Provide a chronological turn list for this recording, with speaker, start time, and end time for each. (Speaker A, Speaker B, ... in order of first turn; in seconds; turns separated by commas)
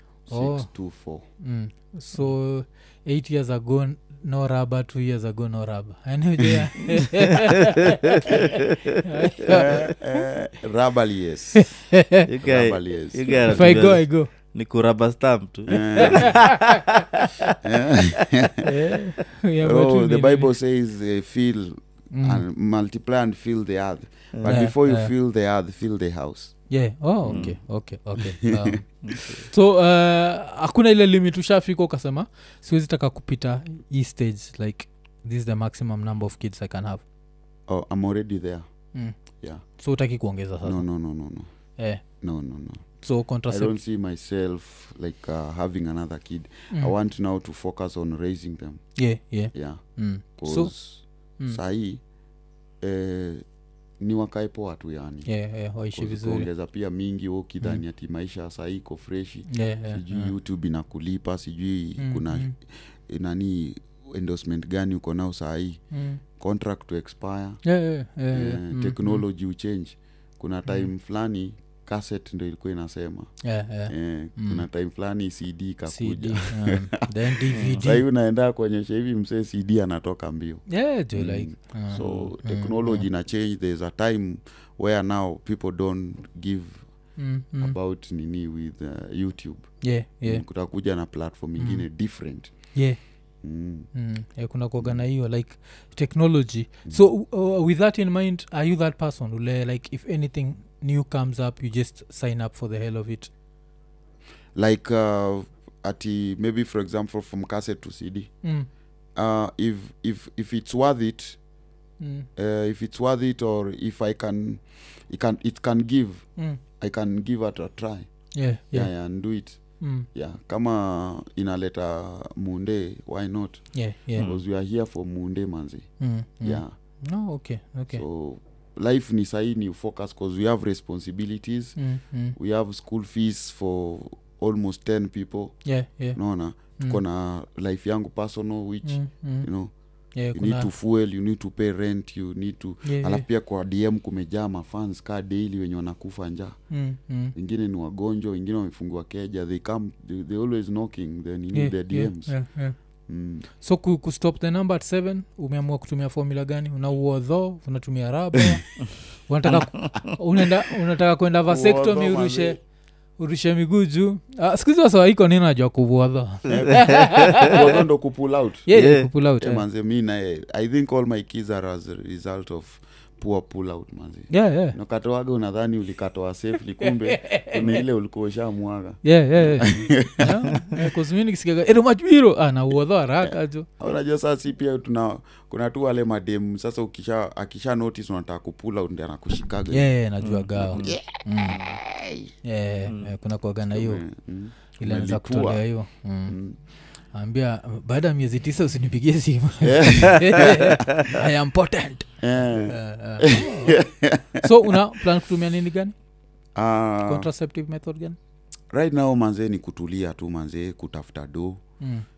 Speaker A: 0.3-1.2, Speaker B: 0.3-0.7, Speaker B: 1.4-10.3, Speaker C: 7.9-9.0, Speaker A: 9.4-11.8, Speaker B: 11.6-12.3, Speaker C: 12.3-17.6, Speaker A: 12.4-13.8, Speaker B: 13.5-14.3, Speaker A: 15.7-16.5, Speaker B: 16.0-16.6, Speaker A: 17.6-18.7, Speaker B: 18.6-20.5, Speaker A: 19.6-26.5, Speaker B: 22.1-22.4, Speaker B: 24.5-25.1, Speaker B: 26.7-37.0, Speaker A: 27.2-27.6, Speaker C: 27.3-27.5, Speaker A: 28.1-28.8, Speaker C: 29.0-29.5, Speaker A: 37.7-38.6, Speaker B: 39.8-40.8, Speaker A: 40.6-41.5, Speaker B: 41.8-42.0, Speaker A: 42.2-42.8, Speaker B: 43.0-43.8, Speaker A: 43.5-48.8, Speaker B: 49.0-50.7, Speaker A: 49.5-49.8, Speaker A: 50.4-52.0, Speaker A: 52.8-53.4, Speaker A: 54.0-55.3, Speaker B: 55.3-56.5, Speaker A: 55.9-65.8, Speaker B: 59.5-60.3, Speaker B: 62.0-62.5, Speaker B: 65.9-66.2, Speaker A: 66.4-67.6, Speaker B: 67.6-69.2, Speaker A: 68.3-73.3, Speaker B: 73.4-74.7, Speaker A: 73.9-77.0, Speaker B: 75.9-78.0, Speaker C: 77.5-77.8, Speaker A: 77.7-86.8, Speaker B: 80.7-83.0, Speaker C: 82.0-82.3, Speaker B: 87.2-87.8, Speaker A: 87.6-89.7, Speaker B: 89.8-90.4, Speaker A: 90.2-92.5, Speaker B: 91.6-91.9, Speaker A: 93.4-93.9, Speaker B: 93.9-103.3, Speaker A: 104.5-108.3, Speaker A: 109.2-111.4, Speaker B: 112.0-112.3, Speaker A: 112.4-116.3, Speaker A: 116.8-118.1, Speaker B: 118.3-118.9, Speaker A: 118.7-119.6, Speaker B: 119.8-120.1, Speaker A: 120.1-123.6, Speaker B: 123.7-124.3, Speaker A: 124.1-125.9, Speaker C: 124.2-124.4, Speaker B: 126.0-128.0, Speaker A: 126.4-126.7, Speaker A: 127.9-131.8, Speaker B: 131.8-132.4, Speaker A: 132.4-135.5, Speaker B: 135.7-136.2, Speaker A: 136.2-139.7, Speaker B: 138.8-139.5, Speaker B: 140.2-140.7, Speaker A: 140.3-146.6, Speaker B: 142.8-143.2, Speaker B: 146.7-147.3, Speaker A: 147.3-152.3, Speaker B: 151.5-152.8, Speaker A: 153.1-153.5, Speaker B: 153.6-158.7, Speaker B: 159.3-162.6, Speaker A: 161.5-162.6, Speaker B: 163.2-167.6, Speaker A: 166.5-168.7, Speaker C: 166.6-167.6, Speaker B: 168.7-169.6, Speaker C: 168.7-169.1, Speaker A: 169.4-180.5, Speaker B: 174.3-174.8, Speaker B: 176.8-177.8, Speaker B: 179.0-183.7, Speaker A: 183.2-189.9, Speaker B: 189.7-191.6, Speaker C: 190.2-191.0, Speaker A: 190.7-192.3, Speaker C: 191.5-191.8, Speaker B: 192.4-194.0, Speaker C: 192.9-193.1, Speaker A: 193.7-195.6, Speaker B: 194.8-196.4, Speaker A: 196.3-196.6, Speaker B: 197.1-203.8, Speaker A: 199.6-201.0, Speaker A: 202.2-204.8, Speaker B: 204.4-205.9, Speaker A: 206.6-207.3, Speaker B: 207.1-208.2, Speaker A: 208.7-211.6, Speaker B: 211.8-212.1